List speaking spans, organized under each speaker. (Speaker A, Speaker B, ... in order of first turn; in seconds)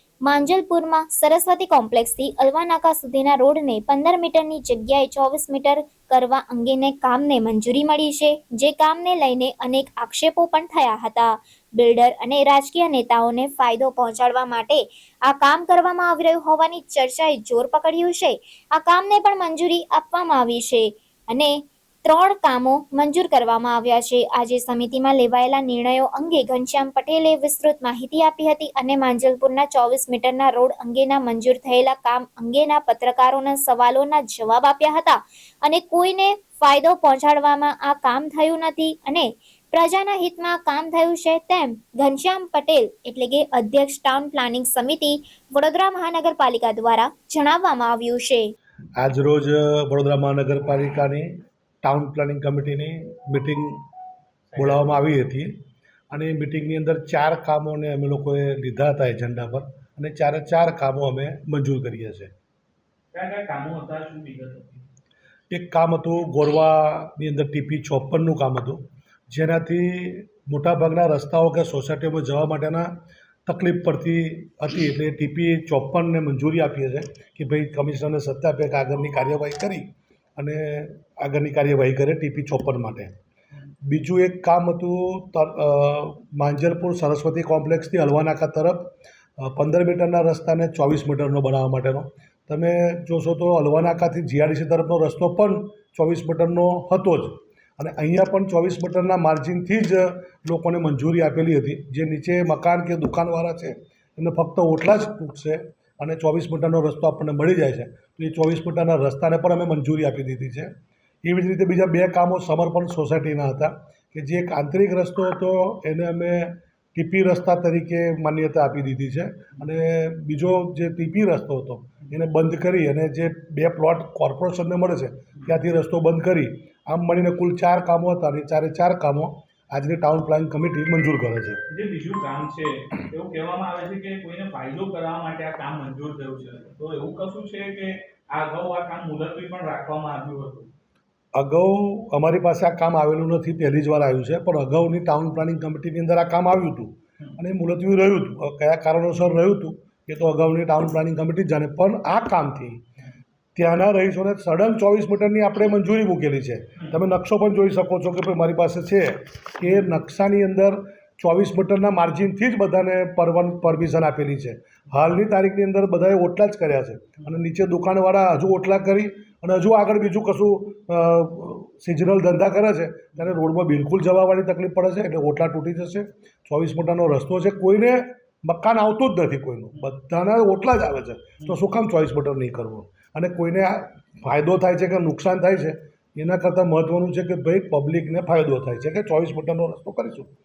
Speaker A: 0.2-48.5
Speaker B: 49.0-53.8, 54.5-55.5, 56.1-62.3, 65.5-72.9, 73.5-83.2, 83.8-131.6, 141.3-152.8, 153.6-190.3
Speaker C: 54.5-54.8, 63.1-64.8, 131.7-140.7